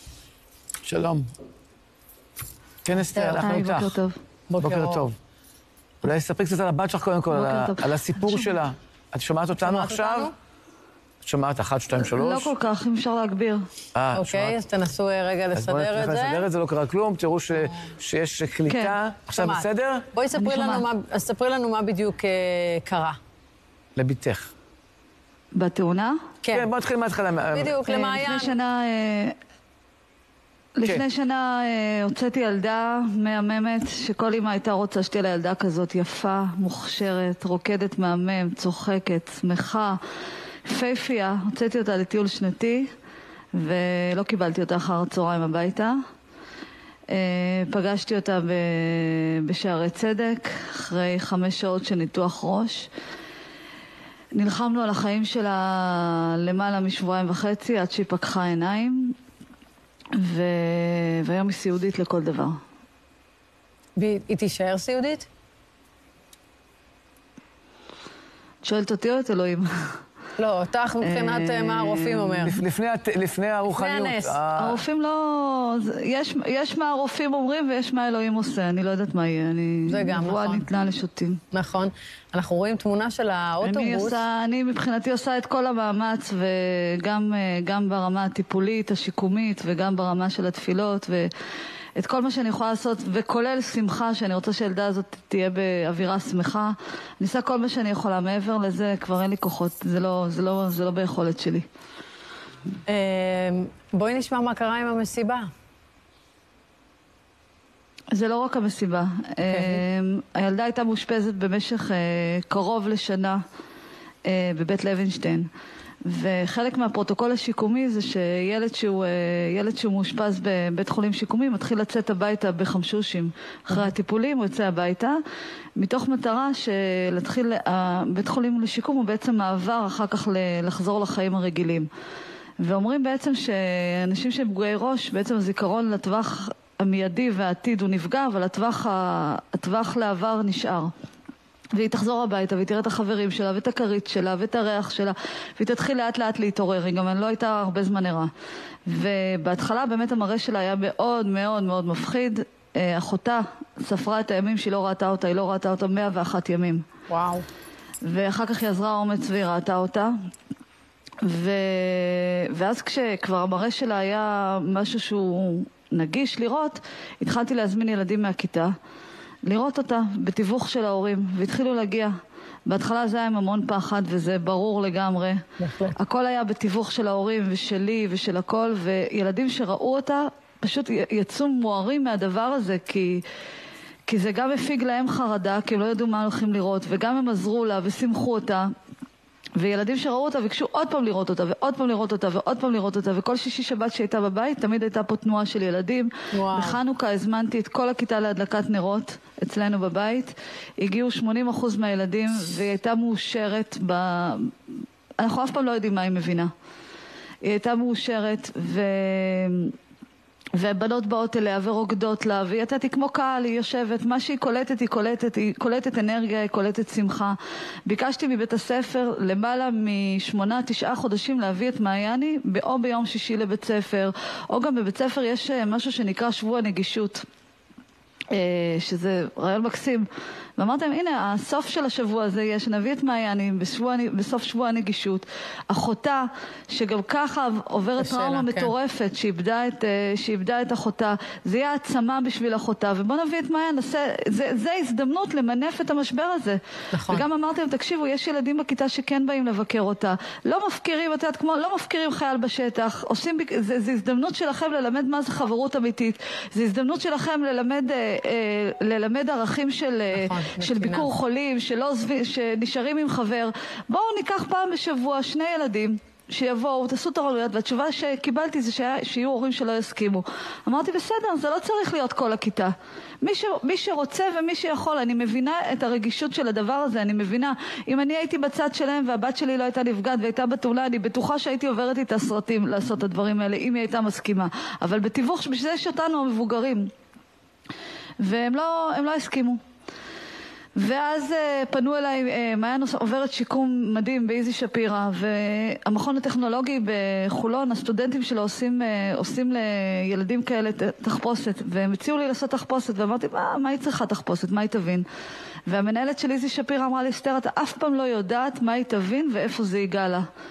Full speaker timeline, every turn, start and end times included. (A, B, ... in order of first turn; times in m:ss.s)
0:00.8-0:01.3 A
0:02.8-0:04.0 A
0:03.2-0:03.5 B
0:03.4-0:04.2 C
0:04.5-0:05.0 B
0:04.6-0:05.2 A
0:06.0-0:10.3 A
0:07.3-0:08.6 C
0:09.6-0:10.3 B
0:11.2-0:12.5 A
0:12.0-0:13.6 C
0:13.9-0:14.6 A
0:14.1-0:16.4 B
0:15.5-0:20.1 A
0:18.6-0:19.0 C
0:19.3-0:23.2 B
0:20.3-0:20.9 C
0:24.0-0:24.5 A
0:25.5-0:26.2 C
0:26.4-0:26.7 B
0:26.5-0:27.8 A
0:27.5-0:28.6 B
0:27.8-0:29.3 C
0:30.8-0:40.0 C
0:40.7-0:42.9 C
0:43.5-0:46.0 C
0:47.1-0:52.9 C
0:54.3-0:59.1 C
1:00.2-1:02.6 C
1:04.0-1:05.3 B
1:08.6-1:09.6 C
1:10.4-1:12.6 B
1:11.0-1:12.5 C
1:12.4-1:14.8 A
1:13.7-1:14.4 B
1:14.6-1:21.4 C
1:19.9-1:20.6 B
1:21.5-1:24.2 B
1:23.6-1:31.3 C
1:32.0-1:41.6 C
1:42.9-1:45.5 B
1:48.1-1:53.4 C
1:49.5-1:49.8 B
1:54.2-1:55.5 C
1:56.0-2:05.2 C
2:05.8-2:11.9 C
2:12.6-2:20.9 C
2:21.7-2:28.3 C
2:28.9-2:36.8 C
2:37.1-2:37.4 B
2:38.0-2:40.1 C
2:41.2-2:48.7 C
2:49.4-2:52.1 C
2:52.6-3:03.2 C
2:55.6-2:56.0 B
3:04.1-3:08.7 C
3:09.6-3:24.5 C
3:16.3-3:16.8 B
3:25.2-3:26.5 C
3:27.4-3:29.7 C
3:30.5-3:47.2 C
3:48.3-3:50.0 C
3:50.6-4:46.9 C
3:58.0-3:58.7 B
4:06.9-4:07.2 B
4:20.1-4:21.1 B
4:48.2-4:49.6 C
4:50.8-5:05.0 C
5:05.7-5:10.2 C